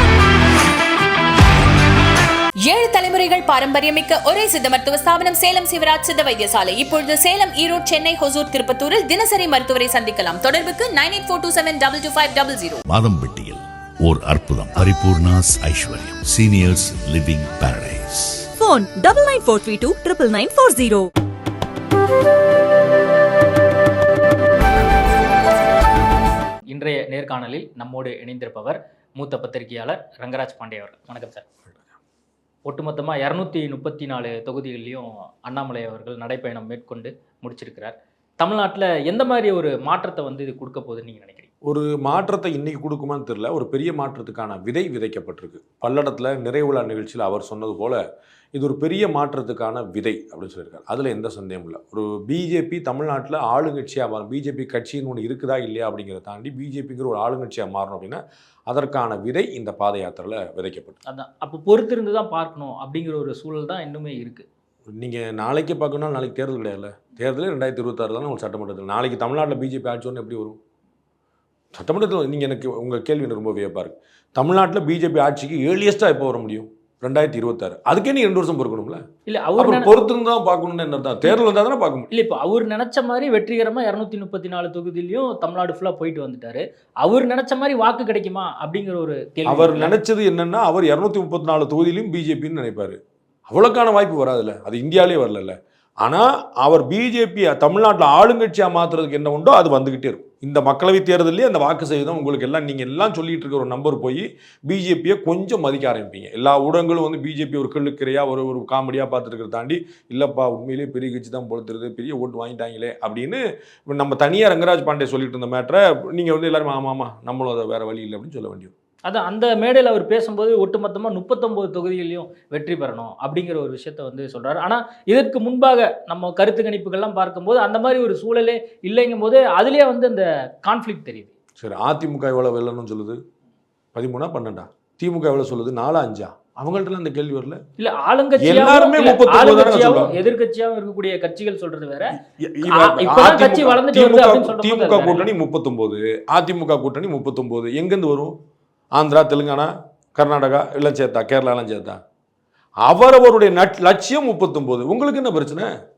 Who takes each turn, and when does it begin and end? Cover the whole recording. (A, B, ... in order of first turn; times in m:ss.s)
0:02.6-0:12.8 A
0:12.9-0:18.6 B
0:18.6-0:21.1 C
0:26.7-0:31.4 D
0:32.7-0:41.5 D
0:41.6-0:48.0 E
0:48.6-1:01.0 E
1:01.1-1:04.4 D
1:04.9-1:10.6 E
1:11.7-1:19.0 E
1:19.3-1:19.9 D
1:19.6-1:22.1 E
1:22.1-1:30.0 D
1:29.5-1:33.0 E
1:33.5-1:58.7 E
1:59.0-2:11.3 D
2:11.6-2:13.2 E
2:13.9-2:17.6 E
2:17.8-2:25.3 D
2:18.4-2:20.2 E
2:22.2-2:28.3 E
2:29.0-2:32.0 E
2:32.8-2:35.7 E